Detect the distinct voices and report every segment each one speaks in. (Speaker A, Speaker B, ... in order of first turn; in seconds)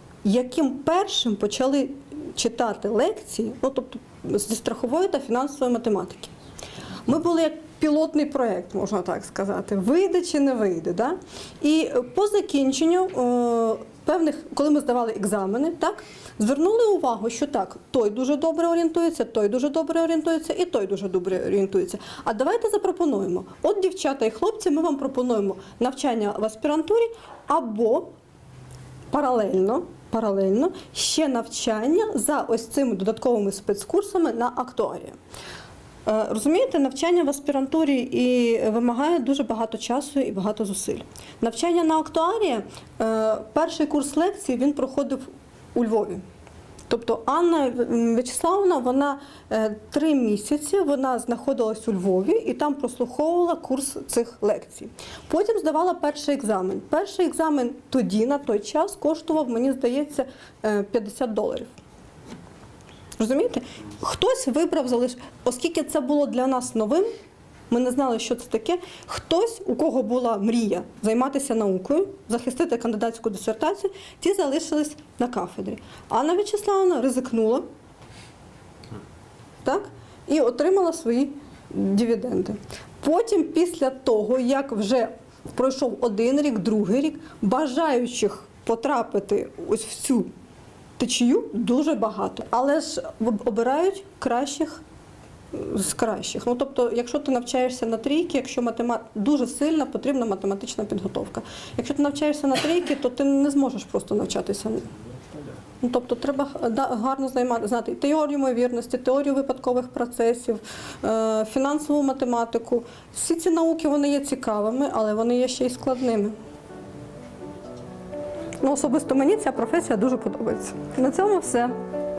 Speaker A: 0.2-6.3, 7.1-28.1, 29.1-35.2, 36.1-46.2, 46.9-61.7, 63.2-67.1, 67.7-77.7, 79.6-90.3, 91.0-94.8, 95.5-104.9, 105.8-116.4, 118.6-121.8